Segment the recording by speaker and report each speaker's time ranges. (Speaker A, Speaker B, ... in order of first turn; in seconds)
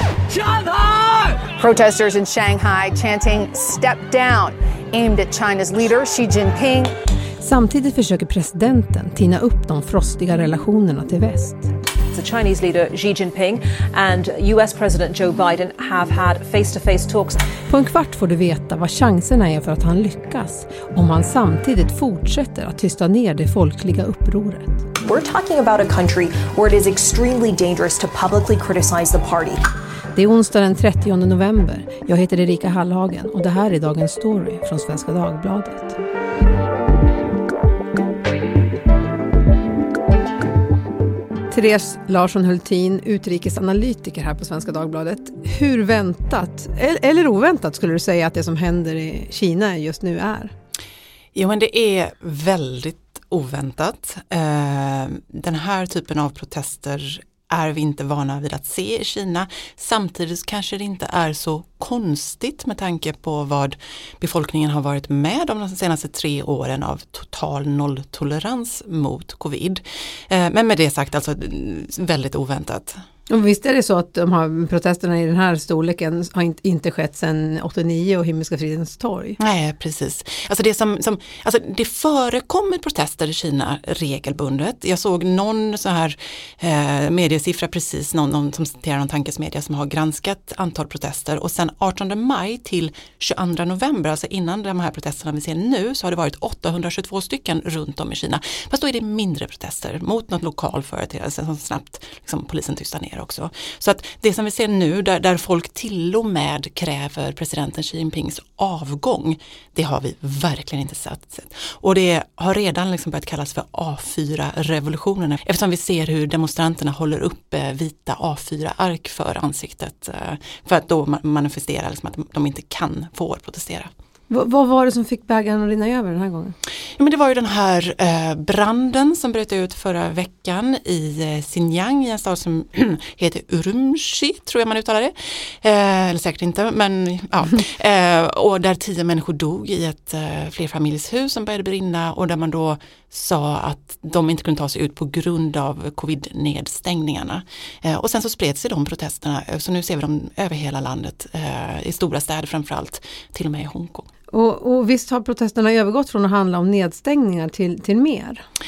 Speaker A: 0.5-6.9
Speaker B: 7.4-11.7, 17.7-24.9, 30.1-36.0, 41.5-50.5, 73.3-79.4, 124.3-126.6, 154.3-158.4
Speaker C: 12.1-17.4
Speaker D: 25.0-29.6
Speaker E: 51.4-73.0, 79.4-123.9, 127.0-154.1